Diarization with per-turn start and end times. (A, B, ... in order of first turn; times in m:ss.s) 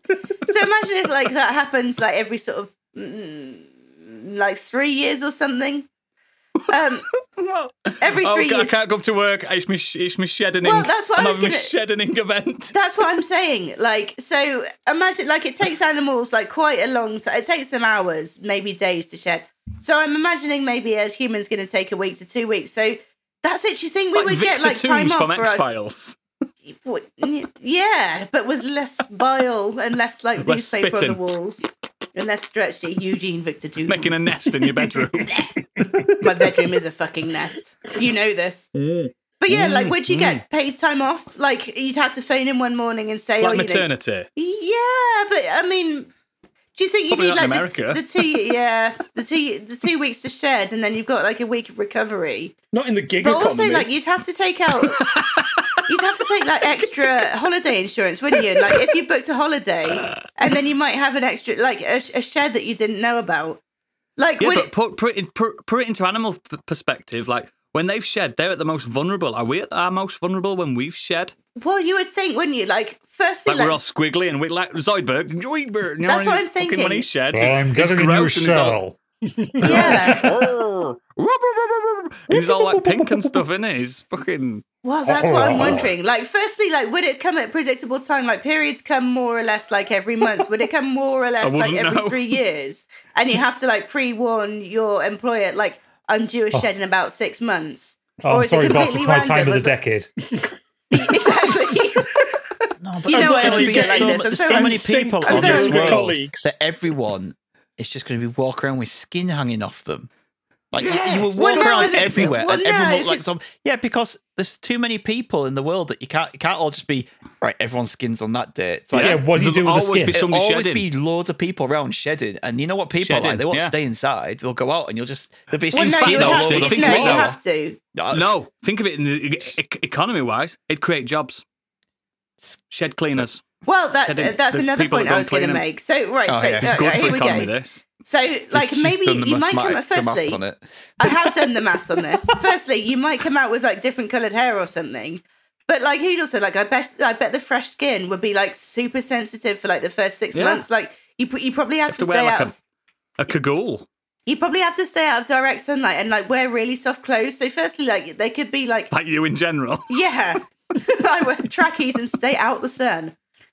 0:00.4-0:05.9 A
0:06.7-0:07.1 A
0:06.7-0:12.7 B
0:08.0-0:08.7 A
0:10.6-0:11.7 A
0:12.7-0:25.6 A
0:24.1-0:26.2 B
0:26.7-0:34.5 A
0:30.4-0:31.4 B
0:33.8-0:35.7 B
0:35.8-0:36.2 C
0:36.2-0:38.7 A
0:39.4-0:46.1 A
0:39.5-0:40.4 B
0:43.4-0:44.3 B
0:46.7-0:52.5 A
0:47.1-0:48.3 B
0:52.7-0:53.9 D
0:53.2-0:55.2 A
0:54.8-0:55.9 B
0:55.9-1:03.6 A
1:00.0-1:00.3 B
1:04.2-1:04.7 A
1:04.4-1:11.3 B
1:11.6-1:13.8 A
1:13.4-1:18.8 B
1:16.0-1:17.1 A
1:17.3-1:19.0 C
1:19.6-1:24.6 B
1:19.6-1:20.3 A
1:19.6-1:20.5 C
1:22.3-1:23.4 C
1:24.8-1:39.8 A
1:25.0-1:25.9 C
1:31.4-1:32.4 B
1:38.2-1:40.1 C
1:40.9-1:46.1 A
1:42.9-1:50.1 E
1:43.0-1:43.3 C
1:43.1-1:46.5 D
1:50.7-1:59.2 E
1:50.8-1:52.1 B
1:51.3-1:53.2 A
1:58.9-2:00.9 B
1:58.9-2:00.2 C
2:00.1-2:07.4 E
2:03.0-2:03.8 B
2:05.7-2:07.8 A
2:05.7-2:07.3 B
2:07.9-2:08.3 E
2:08.1-2:11.4 B
2:12.7-2:13.4 B
2:13.6-2:20.4 A
2:14.0-2:15.6 B
2:16.3-2:17.2 E
2:16.6-2:17.8 B
2:18.5-2:21.3 E
2:21.0-2:32.6 A
2:30.3-2:30.6 B
2:31.9-2:32.5 B
2:33.2-2:33.9 B
2:34.2-2:38.9 A
2:38.9-2:40.1 B
2:39.9-2:43.2 A